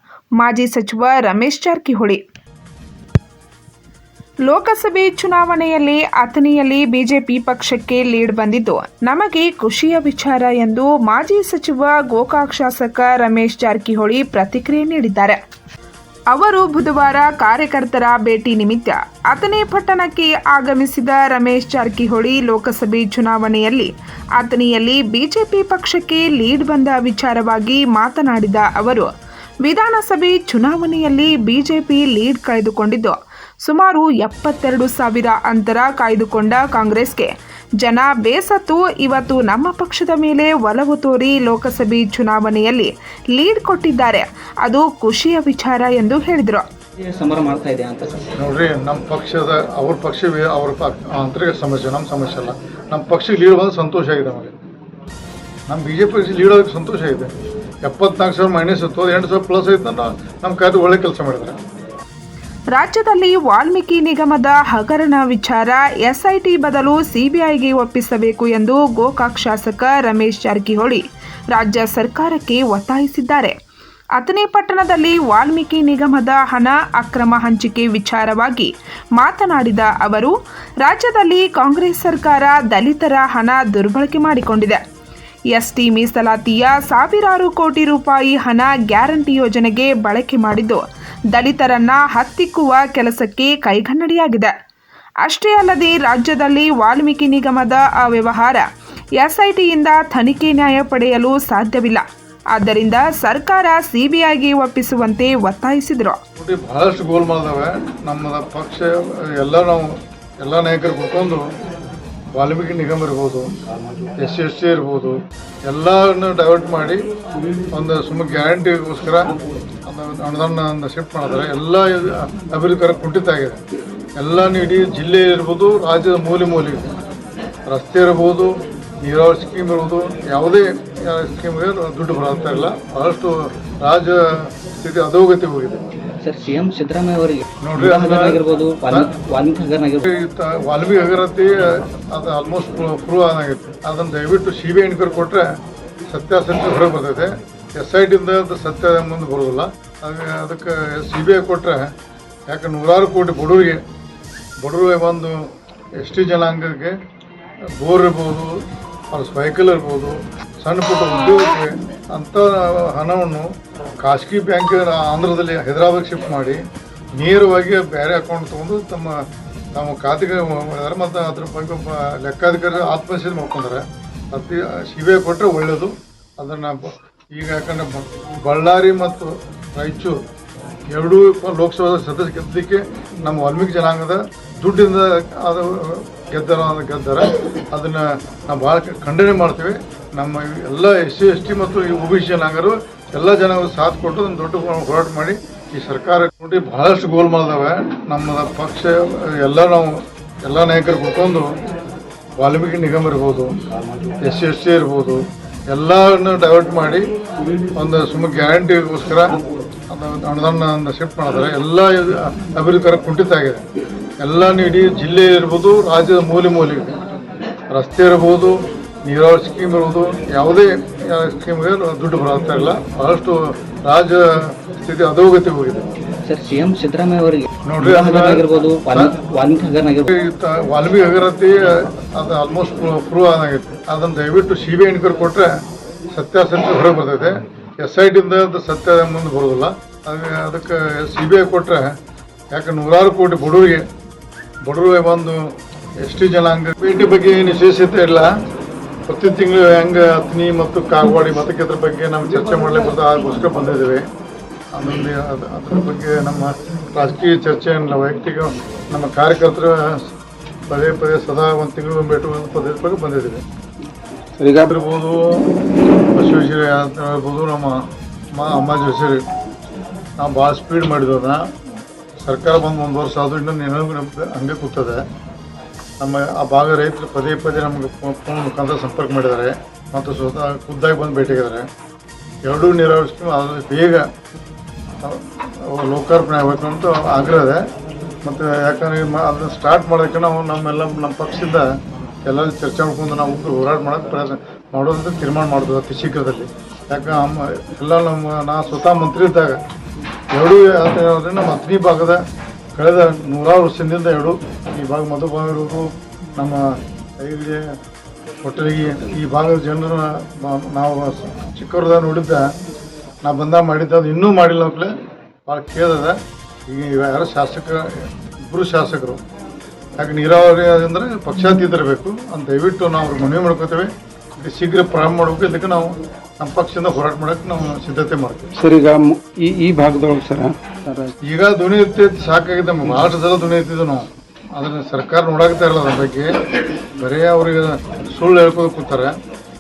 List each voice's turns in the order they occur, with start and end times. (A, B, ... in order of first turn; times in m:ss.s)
0:00.4-0:02.2 A
0:04.4-0:15.4 A
0:16.3-0:29.1 A
0:29.6-0:46.6 A
0:47.0-0:48.3 B
0:48.4-0:54.5 C
0:55.7-0:57.3 C
0:57.8-1:01.6 C
1:02.7-1:13.5 A
1:14.2-1:24.8 A
1:25.5-1:34.5 A
1:35.2-1:38.6 A
1:39.2-1:46.2 A
1:46.4-1:51.4 C
1:52.3-1:53.5 C
1:54.2-1:57.0 C
1:57.7-1:59.3 C
1:59.8-2:03.6 C
2:04.2-2:06.9 C
2:07.7-2:15.8 C
2:16.2-2:20.1 B
2:17.6-2:19.1 C
2:20.0-2:25.5 C
2:26.1-2:31.9 C
2:32.5-2:33.8 C
2:34.6-2:35.5 C
2:36.0-2:36.9 C
2:37.8-2:38.5 C
2:39.1-2:46.6 C
2:47.2-2:49.2 C
2:49.7-3:00.2 C
3:00.9-3:21.5 C
3:22.4-3:23.6 C
3:24.2-3:27.0 C
3:27.7-3:29.4 C
3:29.9-3:33.6 C
3:34.2-3:37.0 C
3:37.7-3:45.9 C
3:46.2-3:50.1 B
3:47.6-3:49.2 C
3:50.1-3:55.5 C
3:56.1-4:01.9 C
4:02.5-4:03.8 C
4:04.6-4:05.5 C
4:06.0-4:08.3 C
4:09.1-4:14.0 C
4:14.7-4:19.9 C
4:20.7-4:23.4 C
4:24.4-4:24.7 D
4:24.6-4:25.4 C
4:26.1-4:27.8 C
4:28.3-4:29.2 C
4:30.2-4:31.4 C
4:32.2-4:35.0 C
4:36.0-4:41.6 C
4:42.4-4:44.0 C
4:45.0-4:47.6 C
4:48.2-4:51.6 C
4:52.2-4:59.6 C
5:00.3-5:02.2 C
5:02.8-5:06.6 C
5:07.2-5:07.7 C
5:08.4-5:12.5 C
5:13.2-5:14.9 C
5:15.4-5:16.2 C
5:16.7-5:19.2 C
5:20.0-5:28.5 C
5:28.6-5:31.1 D
5:31.3-5:39.1 C